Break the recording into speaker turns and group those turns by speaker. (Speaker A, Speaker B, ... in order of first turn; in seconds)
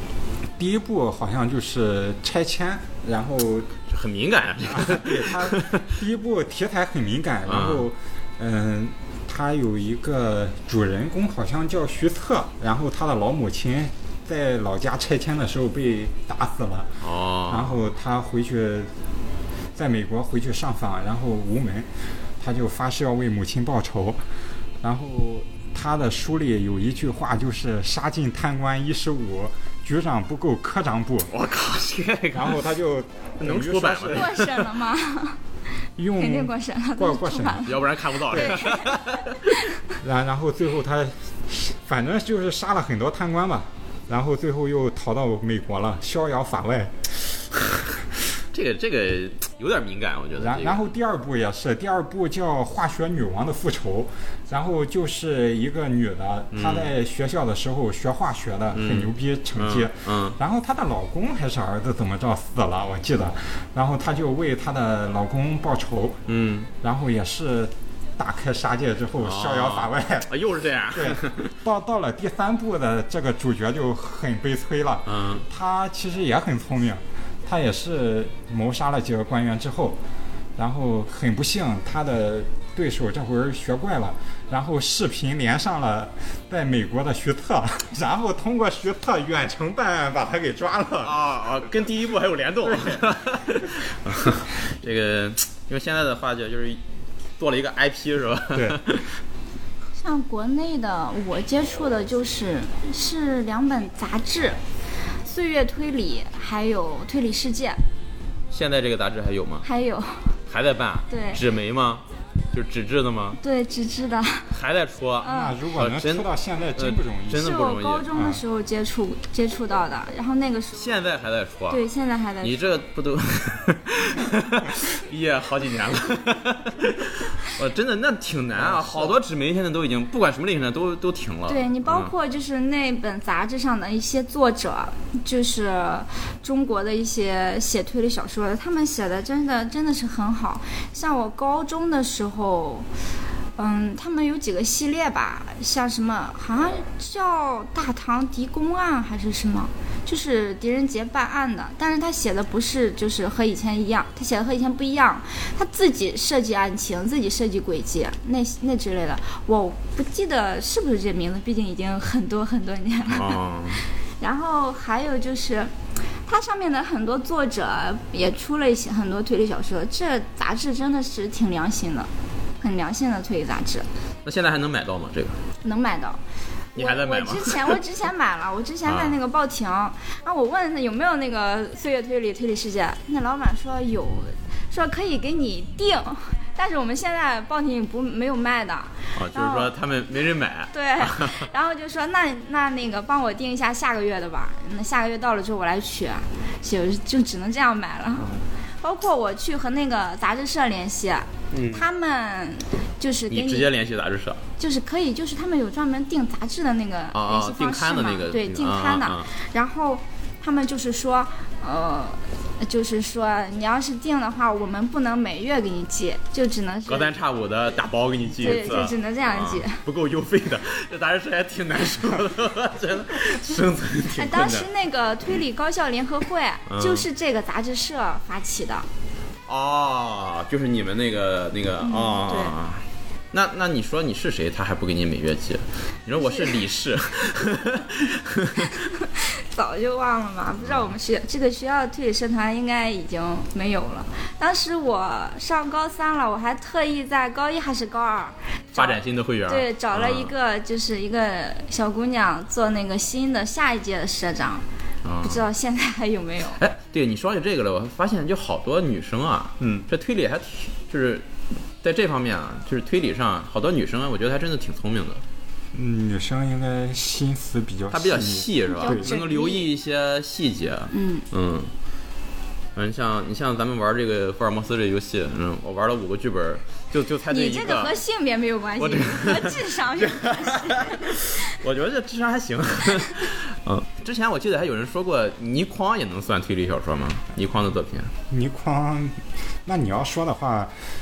Speaker A: 0.6-3.7, 4.7-18.9, 19.8-21.9, 22.4-24.2, 24.8-31.3, 32.3-34.3, 36.0-37.7, 40.0-47.2, 50.4-66.2, 66.8-70.3, 70.9-80.0, 80.6-91.2, 92.6-93.0, 98.5-98.8, 115.3-117.5, 118.1-118.4, 128.6-129.2, 259.6-259.9, 265.7-269.1, 288.3-290.8
Speaker B: 3.9-5.9, 7.5-7.9, 17.0-17.8, 31.3-32.7, 33.4-34.7, 37.6-39.3, 48.5-50.9, 56.5-56.9, 58.7-60.4, 66.3-66.7, 69.2-71.5, 75.1-75.5, 91.0-96.8, 97.4-99.1, 108.5-109.7, 110.5-113.4, 114.5-118.1, 120.7-121.8, 122.4-132.1, 163.1-163.8, 174.2-175.4, 176.8-177.8, 178.8-179.2, 189.2-191.4, 201.5-201.9, 203.3-204.4, 207.1-209.3, 216.9-224.7, 226.7-227.1, 229.5-238.7, 240.6-240.9, 248.8-250.3, 255.0-255.5, 256.6-261.3, 261.8-265.2, 267.9-271.7, 272.8-277.9, 278.8-288.1
Speaker C: 34.1-35.4, 36.1-39.7, 100.0-104.6, 105.2-107.8, 109.6-110.3, 111.1-111.4, 113.4-114.5, 115.2-115.6, 117.4-120.8, 121.7-122.6, 131.5-142.9, 143.6-163.4, 164.2-165.7, 166.3-172.1, 172.6-173.9, 175.6-176.2, 176.8-189.7, 190.7-203.7, 204.6-217.1, 218.4-219.8, 224.2-228.9, 231.8-232.6, 236.2-236.6, 238.6-254.7, 255.2-256.6, 268.7-269.7, 270.9-271.2, 277.3-281.5